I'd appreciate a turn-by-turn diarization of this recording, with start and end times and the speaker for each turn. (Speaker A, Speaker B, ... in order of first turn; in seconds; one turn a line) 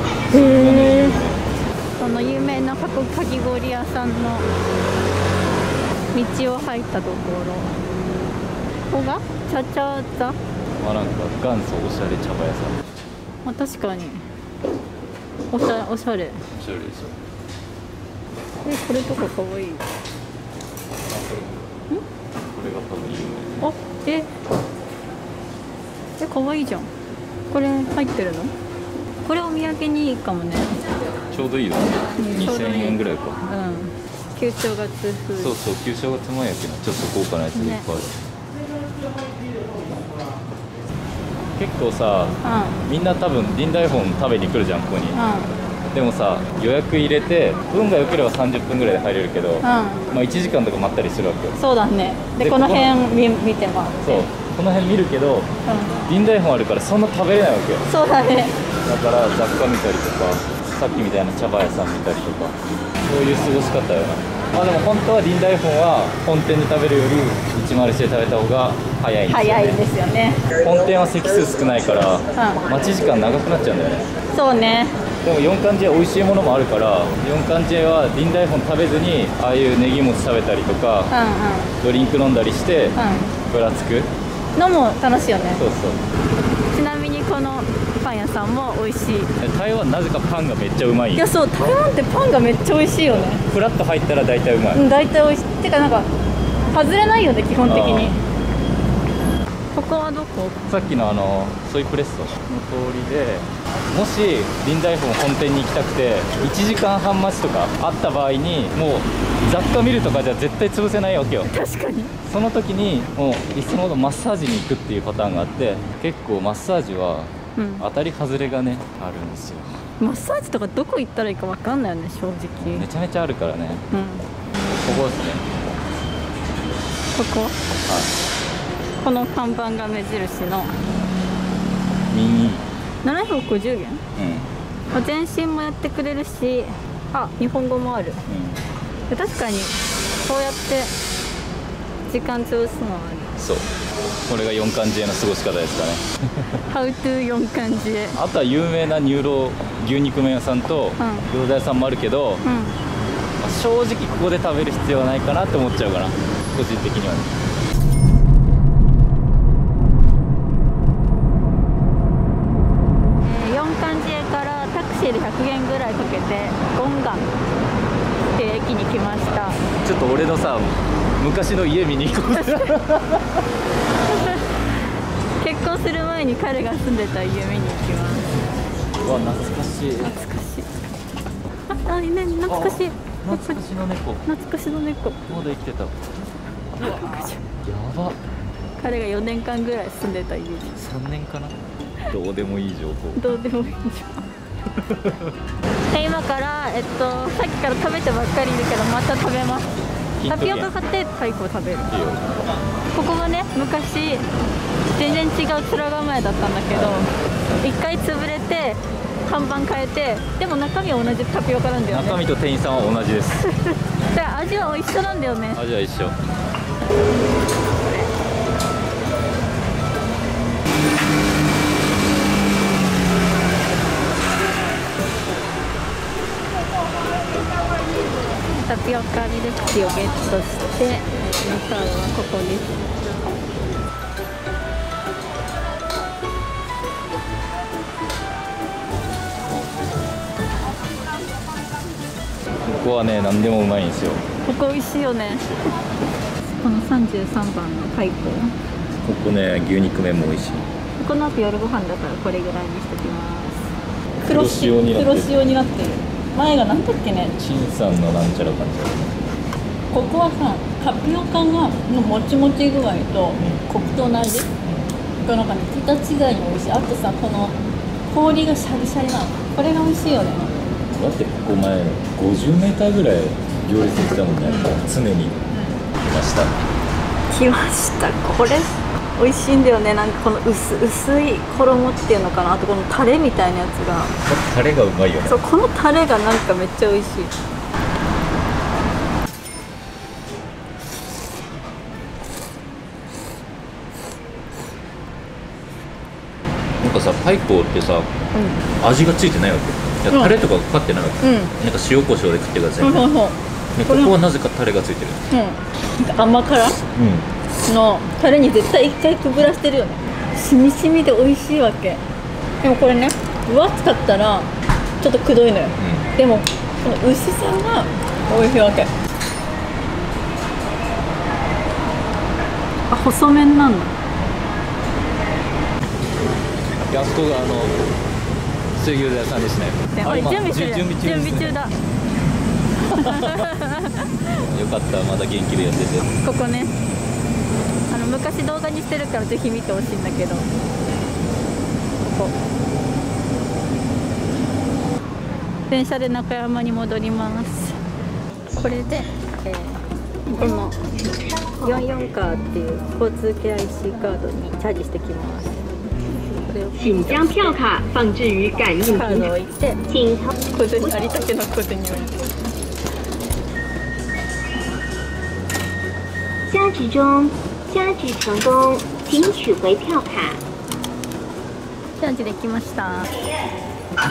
Speaker A: 0.3-1.4
Speaker B: 0.3-1.2
Speaker B: 2.0-4.5
Speaker B: 6.1-7.8
Speaker B: 8.9-10.4
Speaker A: 10.8-12.8
Speaker B: 13.4-14.2
Speaker B: 15.5-16.4
Speaker A: 16.5-17.2
Speaker B: 18.6-19.9
Speaker A: 21.1-21.7
Speaker A: 22.4-23.6
Speaker B: 23.6-24.3
Speaker B: 26.2-26.9
Speaker B: 27.5-28.5
Speaker B: 29.2-30.9
Speaker A: 31.3-33.4
Speaker B: 32.2-35.5
Speaker A: 35.4-38.1
Speaker B: 37.5-37.8
Speaker A: 41.5-45.2
Speaker B: 42.4-42.8
Speaker B: 45.1-45.5
Speaker A: 45.9-51.6
Speaker B: 49.6-50.1
Speaker B: 51.6-54.3
Speaker A: 52.4-53.0
Speaker A: 54.0-55.5
Speaker B: 55.6-56.0
Speaker A: 56.0-57.8
Speaker B: 57.9-58.5
Speaker A: 58.8-69.8
Speaker B: 69.3-70.4
Speaker A: 70.6-74.1
Speaker B: 72.3-72.6
Speaker B: 74.3-75.0
Speaker A: 75.2-81.1
Speaker B: 81.1-81.7
Speaker A: 81.8-84.1
Speaker B: 83.0-83.3
Speaker B: 84.5-85.6
Speaker A: 85.5-86.0
Speaker B: 86.7-89.3
Speaker A: 89.4-91.2
Speaker B: 91.1-93.4
Speaker A: 93.1-94.8
Speaker B: 94.7-96.1
Speaker B: 96.7-98.2
Speaker A: 97.6-98.2
Speaker B: 99.7-100.6
Speaker A: 100.7-111.5
Speaker B: 111.5-112.1
Speaker A: 112.2-119.8
Speaker B: 117.5-117.8
Speaker B: 120.0-122.8
Speaker A: 122.7-123.8
Speaker B: 123.9-124.2
Speaker A: 124.6-125.5
Speaker B: 127.1-127.6
Speaker A: 127.9-128.1
Speaker B: 129.0-130.8
Speaker A: 132.1-132.6
Speaker B: 133.0-134.0
Speaker A: 134.2-134.5
Speaker B: 134.9-138.2
Speaker A: 138.3-138.6
Speaker B: 139.1-140.9
Speaker B: 142.1-143.3
Speaker A: 143.4-143.7
Speaker A: 144.2-146.5
Speaker B: 146.7-148.2
Speaker A: 148.1-152.4
Speaker B: 151.0-151.3
Speaker B: 152.4-152.7
Speaker A: 153.4-157.3
Speaker B: 163.2-167.3
Speaker B: 168.3-169.6
Speaker A: 169.8-173.2
Speaker B: 172.3-172.8
Speaker B: 174.1-174.5
Speaker B: 175.4-178.3
Speaker A: 179.0-180.2
Speaker B: 180.0-180.7
Speaker B: 181.7-183.6
Speaker A: 182.5-184.2
Speaker B: 184.2-185.2
Speaker A: 185.2-186.1
Speaker B: 186.8-187.4
Speaker A: 186.8-188.2
Speaker B: 188.8-190.7
Speaker A: 190.7-191.6
Speaker A: 192.1-193.2
Speaker B: 193.2-194.3
Speaker A: 194.8-195.3
Speaker B: 195.9-199.7
Speaker A: 200.2-200.7
Speaker B: 200.3-201.9
Speaker A: 201.9-202.2
Speaker B: 202.9-204.3
Speaker B: 204.9-207.1
Speaker A: 206.7-207.1
Speaker B: 207.6-212.2
Speaker A: 211.9-213.5
Speaker B: 213.6-215.6
Speaker A: 215.5-216.2
Speaker B: 228.6-232.7
Speaker A: 242.6-244.2
Speaker B: 244.4-245.4
Speaker B: 246.5-248.6
Speaker A: 249.0-250.7
Speaker B: 251.0-253.7
Speaker B: 254.2-257.3
Speaker A: 254.2-255.3
Speaker A: 257.4-259.2
Speaker B: 259.9-264.5
Speaker A: 263.4-263.9
Speaker B: 265.2-267.6
Speaker B: 268.1-270.5
Speaker A: 270.9-275.4
Speaker A: 276.0-276.5
Speaker B: 277.3-284.1
Speaker A: 284.2-285.4
Speaker B: 285.2-287.3
Speaker A: 296.8-298.1
Speaker B: 298.3-298.6
Speaker A: 298.7-303.1
Speaker B: 301.2-301.5
Speaker B: 302.8-304.1
Speaker A: 303.7-305.2
Speaker B: 305.3-306.8
Speaker A: 306.9-307.3
Speaker B: 307.6-312.0
Speaker B: 312.6-318.9
Speaker A: 315.8-316.1
Speaker B: 322.9-323.9
Speaker A: 326.8-327.8
Speaker A: 328.7-331.6
Speaker B: 329.9-331.7
Speaker B: 332.8-334.4
Speaker A: 333.0-333.5
Speaker A: 334.3-336.1
Speaker B: 336.2-336.8
Speaker B: 337.9-340.5
Speaker B: 342.0-342.3
Speaker B: 345.7-347.8
Speaker B: 348.6-350.8
Speaker C: 351.6-351.9
Speaker B: 351.6-355.6
Speaker B: 356.2-357.6
Speaker C: 356.8-359.3
Speaker B: 358.9-359.8
Speaker C: 359.9-360.3
Speaker B: 360.5-362.3
Speaker C: 366.5-370.4
Speaker B: 372.0-373.1
Speaker C: 373.2-373.4